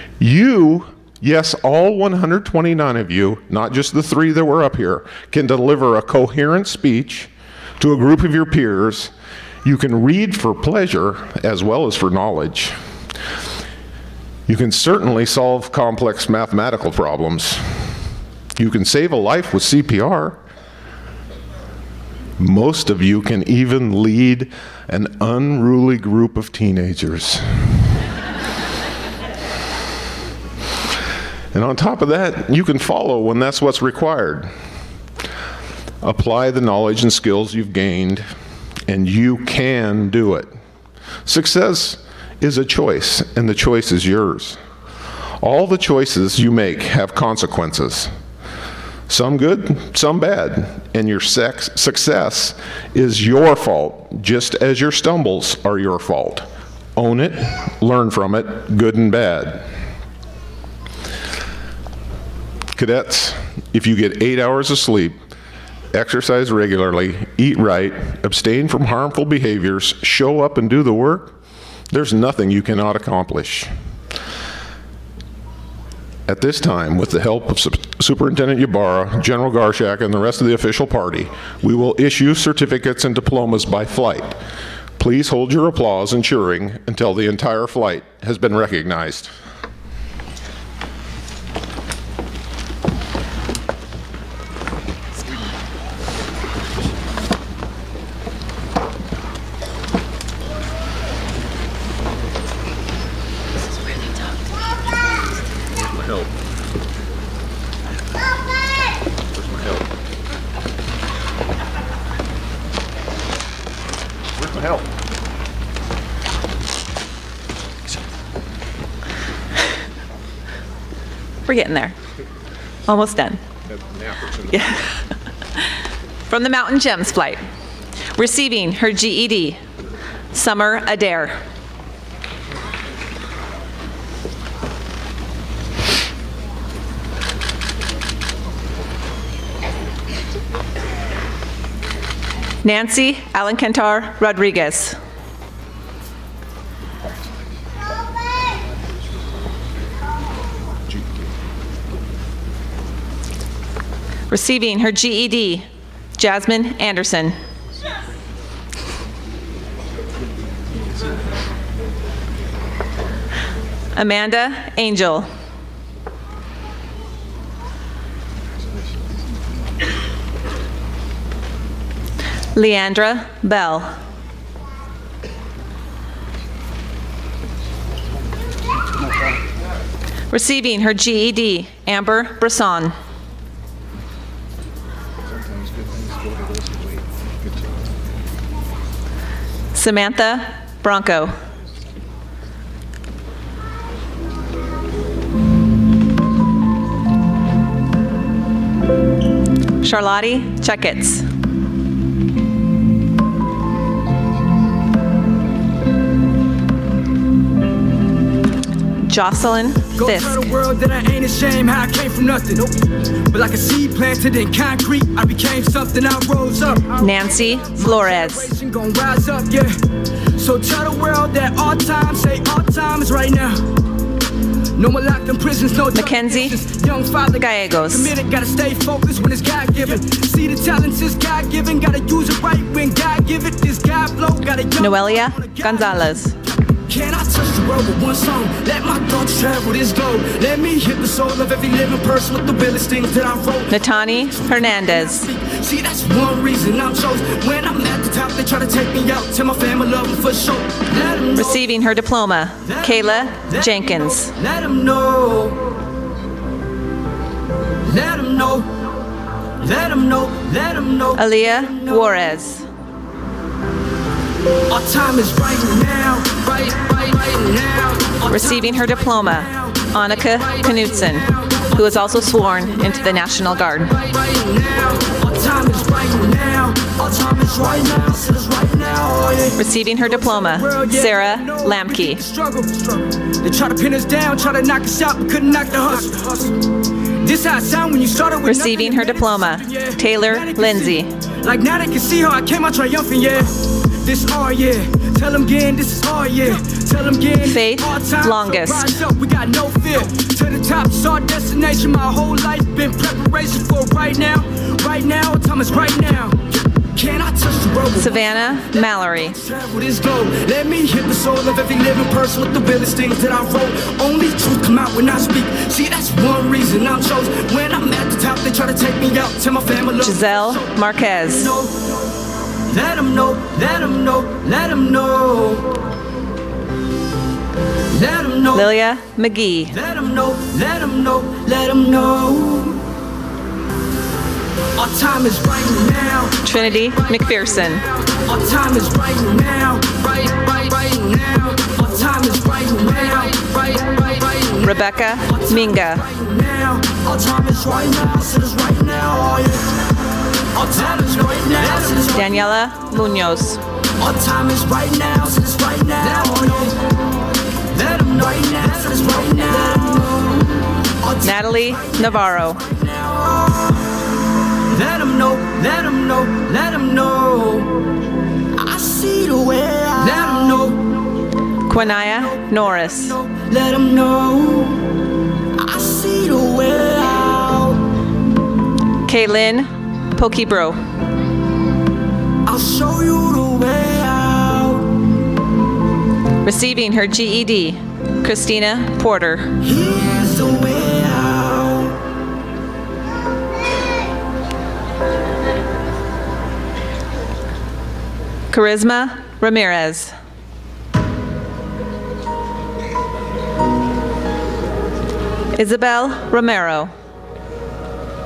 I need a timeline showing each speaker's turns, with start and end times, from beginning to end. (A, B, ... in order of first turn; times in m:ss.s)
0:00.2-0:09.1 A
0:09.6-0:12.7 A
0:14.5-0:17.6 A
0:18.6-0:20.4 A
0:22.4-0:27.4 A
0:31.5-0:34.5 A
0:36.0-0:38.2 A
0:38.9-0:40.5 A
0:41.2-0:44.6 A
0:45.4-0:48.1 A
0:49.1-0:59.6 A
1:02.7-1:05.2 A
1:05.9-1:11.3 A
1:11.9-1:13.7 A
1:16.3-1:24.4 A
1:25.0-1:29.3 A
2:01.4-2:01.9 B
2:02.9-2:03.4 B
2:04.5-2:05.0 B
2:06.3-2:07.4 B
2:08.2-2:09.6 B
2:10.3-2:11.4 B
2:22.6-2:25.0 B
2:34.3-2:37.4 B
2:43.9-2:45.3 B
2:52.6-2:53.9 B
3:00.3-3:02.9 B
3:09.7-3:11.3 B
3:19.8-3:21.2 B
3:29.0-3:30.4 B
3:29.9-3:32.8 C
3:33.3-3:39.8 C
3:37.0-3:38.5 B
3:40.4-3:43.6 C
3:44.8-3:56.1 C
3:45.9-3:46.6 B
3:47.3-3:48.1 B
3:54.8-3:56.3 B
3:56.9-4:11.6 C
4:03.7-4:05.3 B
4:11.3-4:14.3 B
4:12.6-4:15.6 C
4:17.8-4:18.7 C
4:19.6-4:22.3 C
4:21.2-4:22.6 B
4:24.7-4:33.0 C
4:28.3-4:33.9 B
4:33.9-4:46.5 C
4:39.6-4:42.2 B
4:47.2-5:21.9 C
4:48.4-4:51.1 B
4:57.4-4:59.0 B
5:08.0-5:09.4 B
5:20.0-5:21.5 B
5:22.7-5:25.6 C
5:27.9-5:28.7 C
5:28.5-5:29.7 B
5:29.7-5:32.8 C
5:34.8-5:49.6 C
5:36.4-5:37.8 B
5:44.6-5:46.0 B
5:50.5-5:52.4 C
5:52.1-5:53.6 B
5:54.0-5:56.8 C
5:57.7-6:00.5 C
6:01.0-6:03.8 C
6:01.2-6:02.6 B
6:04.7-6:07.7 C
6:08.6-6:10.8 C
6:11.7-6:13.2 B
6:11.8-6:14.8 C
6:15.6-6:17.8 C
6:19.1-6:20.8 B
6:22.4-6:24.9 C
6:26.4-6:29.5 B
6:29.6-6:31.9 C
6:38.5-6:40.1 B
6:45.5-6:46.9 B